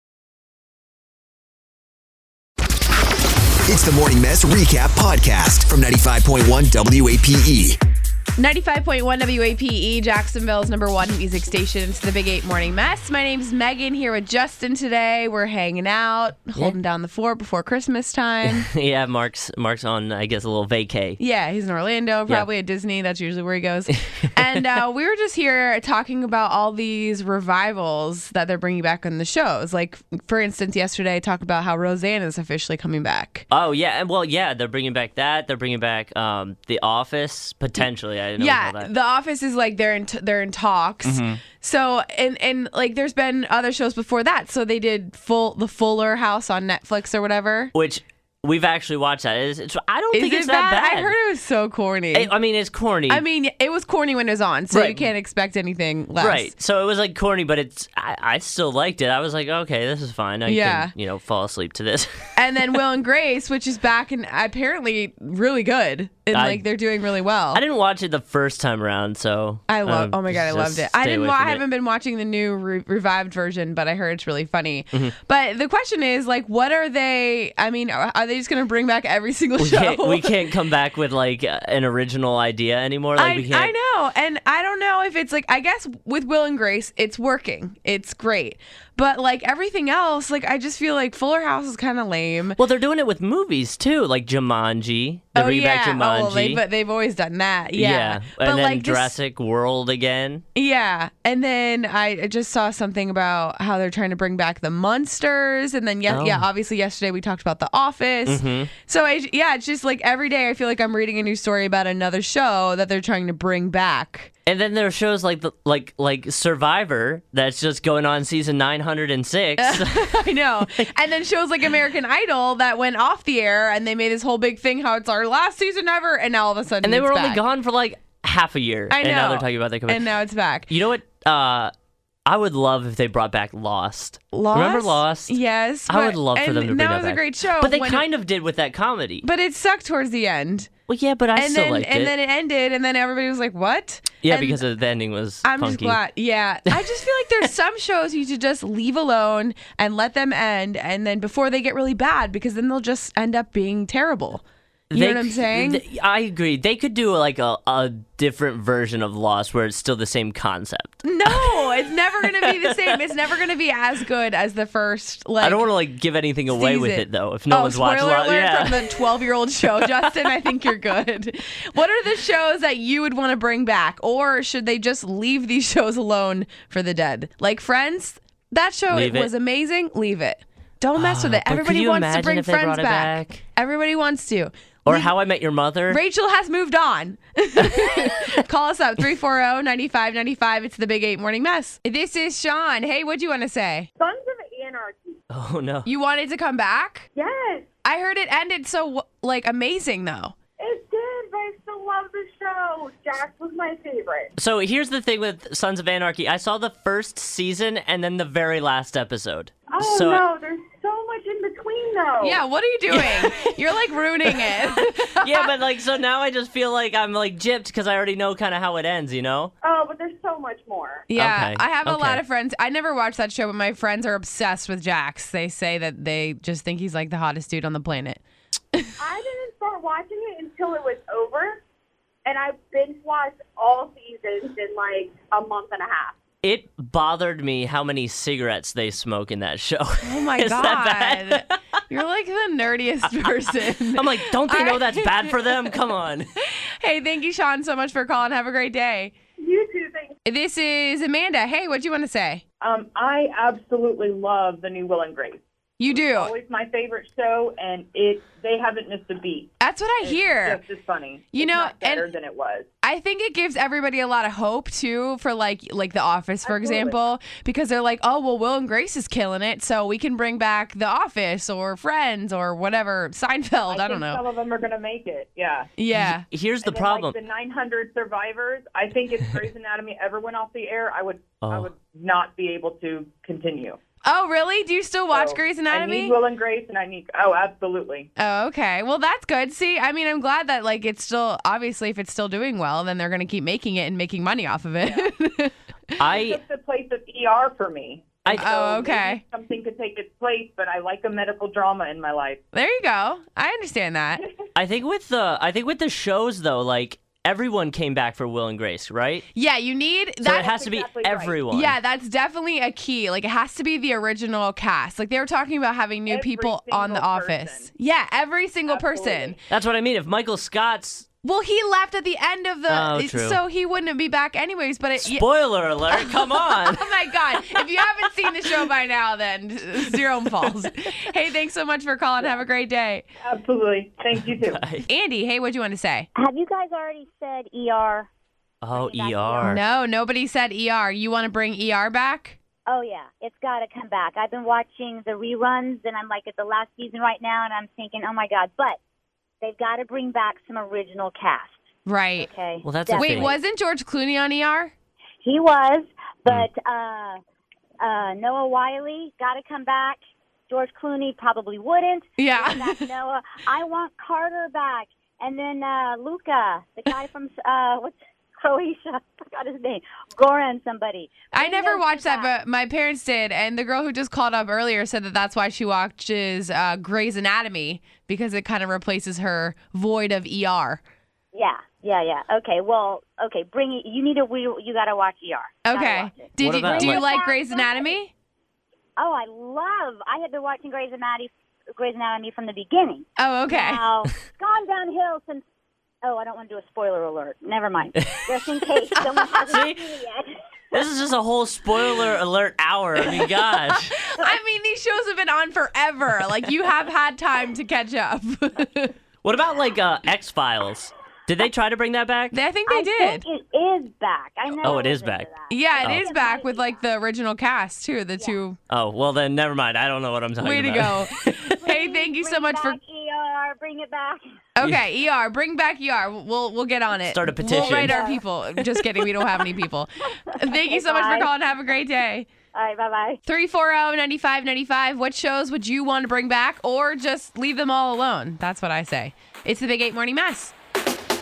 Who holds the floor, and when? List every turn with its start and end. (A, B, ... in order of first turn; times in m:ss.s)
0:03.7-0:07.8 A
0:08.4-0:18.7 B
0:18.4-0:21.2 C
0:21.2-0:33.4 B
0:33.5-0:38.9 C
0:38.4-0:47.7 B
0:41.0-0:41.4 C
0:47.7-0:51.1 C
0:50.1-0:52.3 B
0:52.1-0:53.2 C
0:53.1-0:56.5 B
0:54.7-0:55.1 C
0:56.2-1:02.1 C
1:00.4-1:00.9 B
1:02.4-1:07.6 B
1:06.3-1:06.7 C
1:07.5-1:11.6 C
1:09.7-1:20.4 B
1:19.6-1:23.7 C
1:23.2-1:32.6 B
1:32.6-1:36.6 C
1:35.3-1:39.1 B
1:37.7-1:40.4 C
1:40.5-1:54.3 B
1:46.1-1:46.5 C
1:48.2-1:48.7 C
1:54.4-2:00.8 C
1:59.6-2:07.4 B
2:06.8-2:10.1 C
2:08.9-2:10.7 B
2:10.7-2:11.7 C
2:12.2-2:15.4 C
2:14.3-2:18.1 B
2:15.9-2:19.2 C
2:19.2-2:20.7 B
2:20.9-2:22.1 C
2:21.3-2:24.6 B
2:24.2-2:26.0 C
2:25.4-2:35.8 B
2:34.9-2:42.9 C
2:41.0-2:45.7 B
2:45.4-2:49.0 C
2:46.5-3:05.1 B
2:49.6-2:50.3 C
2:58.9-2:59.3 C
3:01.0-3:03.4 C
3:04.8-3:06.0 C
3:05.9-3:13.9 B
3:14.0-3:15.2 D
3:15.3-3:15.9 C
3:15.8-3:17.1 B
3:17.1-3:17.6 D
3:17.8-3:20.3 B
3:20.6-3:24.3 D
3:24.4-3:30.3 C
3:29.7-3:32.4 D
3:32.2-3:35.5 B
3:32.9-3:33.4 C
3:35.2-3:39.5 C
3:39.6-3:41.1 D
3:41.1-3:48.2 B
3:41.2-3:42.2 C
3:49.2-3:51.6 D
3:52.2-3:56.2 D
3:56.4-4:01.6 C
4:00.0-4:05.6 B
4:03.6-4:06.3 C
4:06.8-4:09.1 B
4:09.4-4:10.1 D
4:10.2-4:12.4 B
4:12.6-4:22.7 E
4:15.8-4:16.3 B
4:19.6-4:20.6 B
4:21.3-4:22.1 B
4:22.8-4:34.2 B
4:26.4-4:27.0 E
4:33.7-4:35.7 E
4:35.8-4:36.2 B
4:35.9-4:37.2 C
4:36.6-4:43.8 E
4:41.4-4:41.7 C
4:44.0-4:46.2 B
4:45.1-4:48.1 E
4:48.2-4:55.5 B
4:54.8-4:55.1 E
4:56.0-4:56.4 C
4:56.1-5:02.4 E
4:58.2-4:58.5 C
4:58.3-4:59.2 B
5:02.5-5:04.2 B
5:04.6-5:09.3 C
5:09.3-5:10.5 B
5:10.2-5:11.7 C
5:10.2-5:11.4 E
5:11.5-5:19.4 B
5:16.1-5:17.7 E
5:18.6-5:19.4 E
5:19.5-5:21.1 C
5:21.2-5:25.2 B
5:22.7-5:23.4 C
5:25.0-5:26.8 C
5:26.0-5:33.0 B
5:33.2-5:34.6 E
5:34.4-5:34.8 C
5:34.9-5:36.1 B
5:36.2-5:38.1 F
5:38.6-5:39.6 C
5:38.7-5:39.6 F
5:39.4-5:42.4 B
5:42.7-5:48.8 F
5:49.4-5:51.5 F
5:51.8-5:52.3 B
5:52.2-5:53.4 F
5:52.6-5:53.3 C
5:53.0-5:54.7 B
5:55.2-5:57.2 F
5:57.8-6:00.0 F
6:00.5-6:12.3 F
6:02.2-6:02.8 B
6:11.3-6:20.8 B
6:21.3-6:27.9 F
6:25.6-6:28.1 B
6:26.4-6:27.0 C
6:29.0-6:35.4 F
6:33.2-6:33.8 B
6:36.0-6:40.3 F
6:39.4-6:39.9 C
6:40.7-6:43.9 C
6:43.0-6:48.9 B
6:49.2-6:52.3 C
6:52.3-6:53.2 B
6:52.7-6:56.8 F
6:54.5-6:56.0 C
6:55.5-6:58.6 B
6:58.7-7:01.5 C
7:00.4-7:02.8 B
7:01.6-7:04.2 F
7:04.6-7:12.3 B
7:07.1-7:08.0 C
7:07.4-7:09.5 F
7:10.3-7:11.4 F
7:12.5-7:13.2 F
7:13.2-7:20.5 B